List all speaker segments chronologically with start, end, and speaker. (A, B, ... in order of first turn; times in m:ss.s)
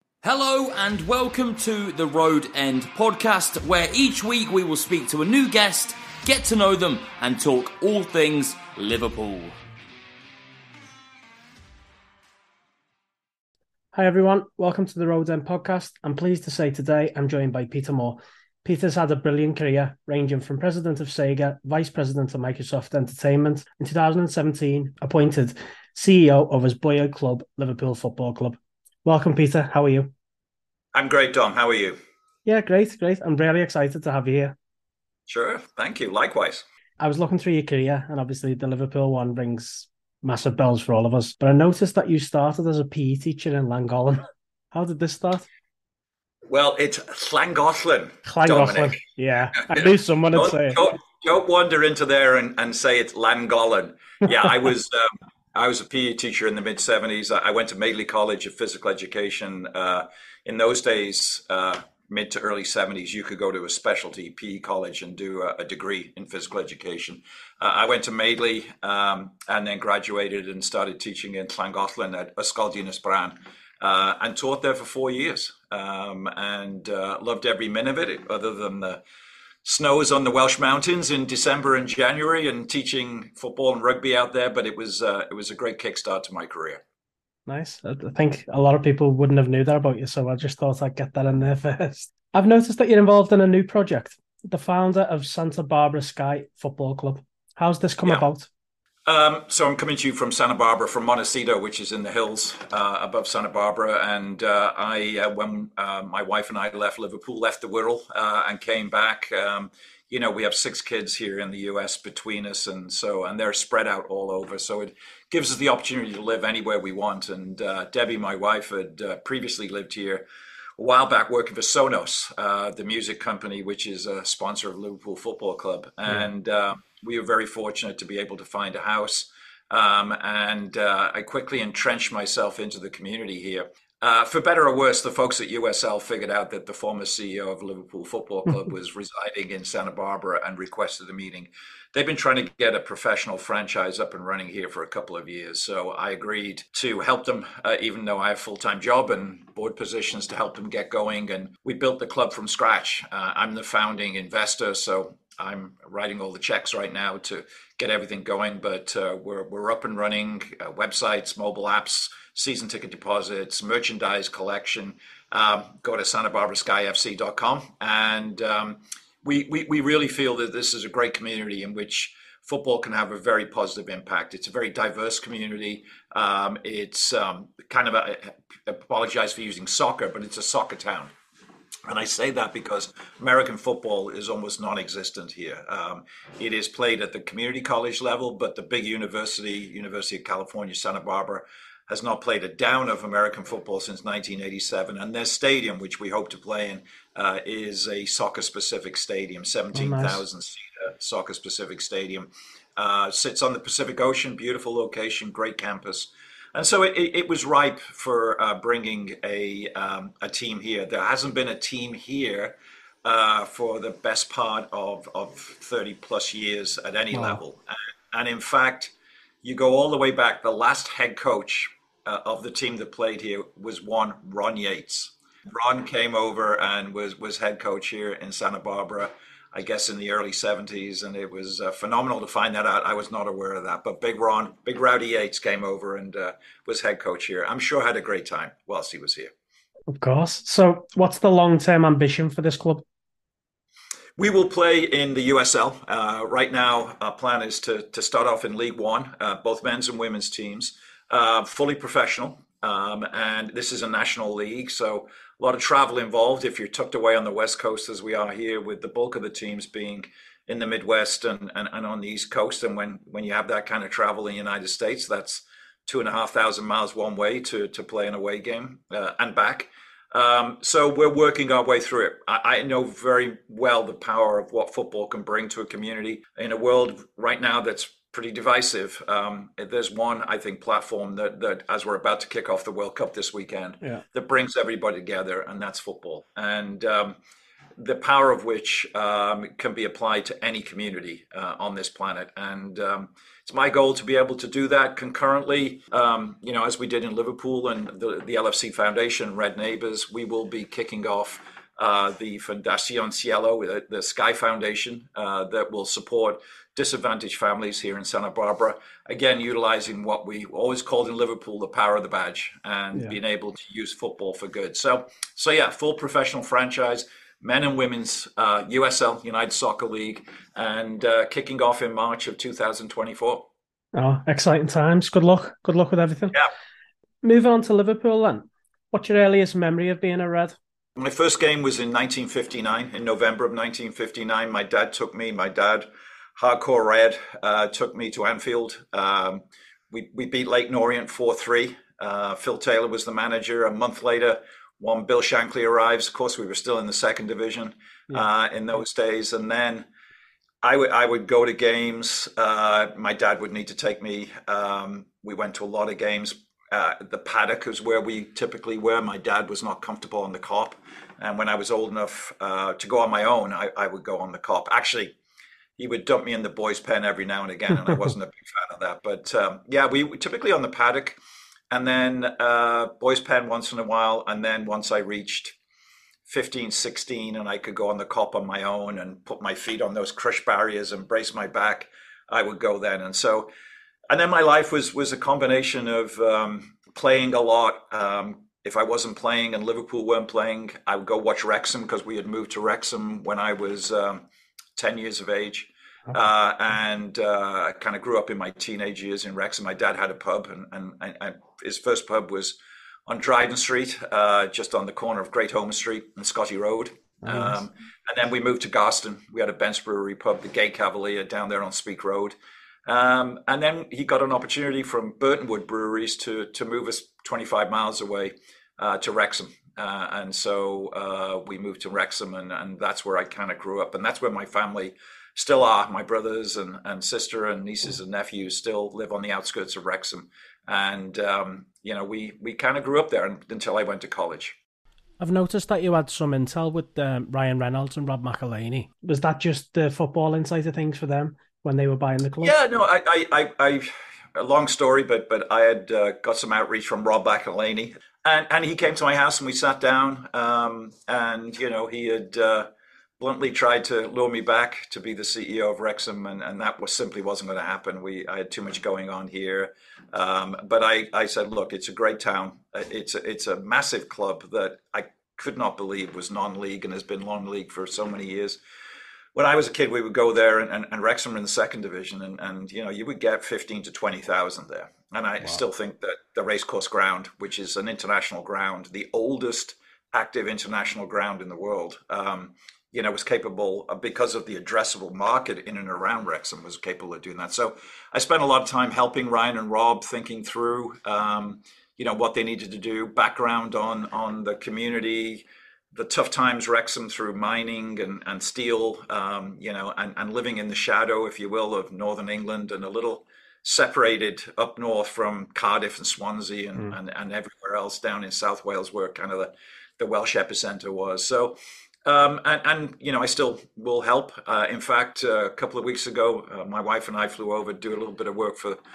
0:00.2-0:09.6 A
0:13.9-0:30.1 B
0:31.0-0:32.0 C
0:32.4-0:34.6 B
0:35.3-0:36.6 C
0:37.0-0:45.5 B
0:46.5-0:49.0 C
0:48.3-0:50.8 B
0:49.7-1:19.0 C
1:19.6-1:26.8 C
1:27.5-1:38.5 B
1:39.1-2:00.2 C
2:00.8-3:01.1 C
3:01.9-3:59.3 C
3:19.7-3:20.2 B
3:37.1-3:37.4 B
3:59.9-4:02.8 B
4:04.2-4:47.2 C
4:47.8-5:23.4 C
5:23.9-5:26.4 B
5:27.2-5:30.6 B
5:31.0-5:35.9 C
5:36.4-5:49.9 C
5:50.6-6:05.2 C
6:05.8-6:11.2 C
6:11.7-6:15.6 C
6:16.3-6:23.5 C
6:24.1-6:34.2 C
6:34.8-6:42.6 C
6:43.1-6:52.4 C
6:47.3-6:47.6 B
6:52.9-7:14.6 C
7:15.2-7:22.6 B
7:22.4-7:32.7 C
7:33.2-7:48.6 C
7:49.4-8:38.8 C